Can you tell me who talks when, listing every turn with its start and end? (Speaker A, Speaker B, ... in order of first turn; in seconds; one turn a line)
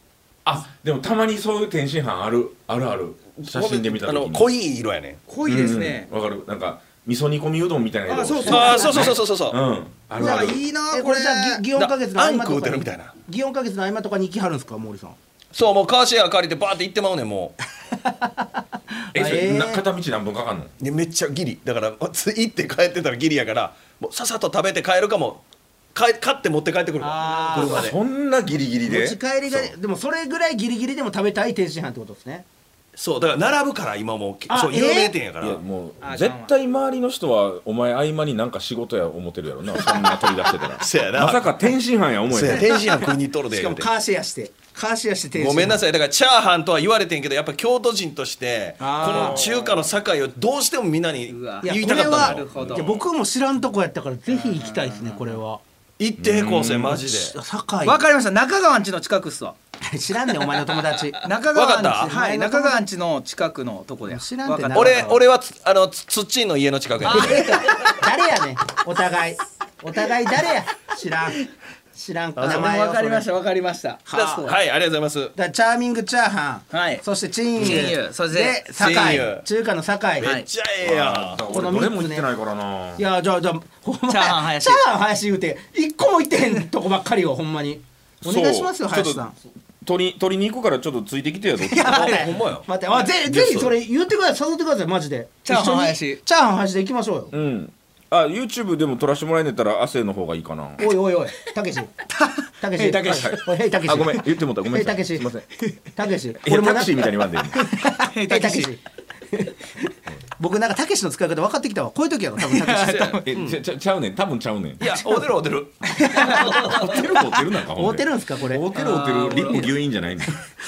Speaker A: 0.5-4.5
Speaker B: 3.4-5.2
Speaker C: 5.3-6.1
Speaker A: 5.5-10.6
Speaker C: 8.1-9.1
Speaker B: 8.5-9.6
Speaker C: 10.2-11.7
Speaker D: 10.2-15.2
Speaker B: 11.7-13.1
Speaker B: 15.5-17.6
Speaker D: 18.1-18.4
Speaker D: 19.1-19.8
Speaker A: 19.1-20.7
Speaker B: 20.8-25.4
Speaker B: 25.9-28.0
Speaker D: 27.0-27.9
Speaker A: 27.6-29.7
Speaker D: 28.9-32.5
Speaker B: 33.0-35.6
Speaker D: 34.5-35.1
Speaker A: 35.4-42.8
Speaker C: 36.0-36.5
Speaker B: 40.8-41.7
Speaker B: 42.3-43.9
Speaker D: 42.5-45.8
Speaker B: 45.4-52.9
Speaker D: 48.8-49.4
Speaker A: 49.1-49.8
Speaker C: 51.3-52.9
Speaker D: 51.6-55.6
Speaker A: 52.4-52.9
Speaker C: 54.3-55.4
Speaker B: 56.0-57.4
Speaker A: 56.2-57.1
Speaker D: 57.2-58.0
Speaker C: 57.8-59.5
Speaker D: 59.9-61.2
Speaker C: 61.2-65.2
Speaker B: 61.5-62.1
Speaker D: 62.0-62.9
Speaker D: 64.1-65.2
Speaker B: 64.7-67.5
Speaker C: 67.0-67.9
Speaker D: 67.1-73.3
Speaker B: 72.4-72.7
Speaker C: 72.4-74.1
Speaker D: 74.1-74.5
Speaker B: 74.1-75.3
Speaker D: 75.4-80.4
Speaker C: 76.7-77.0
Speaker C: 77.6-78.7
Speaker B: 77.6-77.9
Speaker B: 78.8-79.5
Speaker B: 80.2-81.4
Speaker C: 80.2-80.5
Speaker A: 80.8-83.0
Speaker D: 81.5-82.3
Speaker D: 83.0-89.3
Speaker C: 84.1-84.8
Speaker A: 88.2-89.2
Speaker A: 89.8-92.1
Speaker C: 91.6-92.3
Speaker B: 91.9-93.7
Speaker D: 91.9-97.3
Speaker C: 95.5-96.2
Speaker A: 97.3-100.9
Speaker D: 100.8-102.0
Speaker C: 102.1-103.4
Speaker D: 102.6-105.3
Speaker A: 103.1-105.5
Speaker D: 106.0-107.2
Speaker A: 106.4-107.5
Speaker C: 107.5-108.7
Speaker D: 108.3-108.8
Speaker D: 110.4-113.0
Speaker C: 112.5-113.3
Speaker B: 112.8-113.6
Speaker A: 113.3-114.9
Speaker B: 114.8-115.8
Speaker C: 115.9-116.8
Speaker A: 116.2-120.4
Speaker D: 117.8-118.7
Speaker C: 118.8-119.7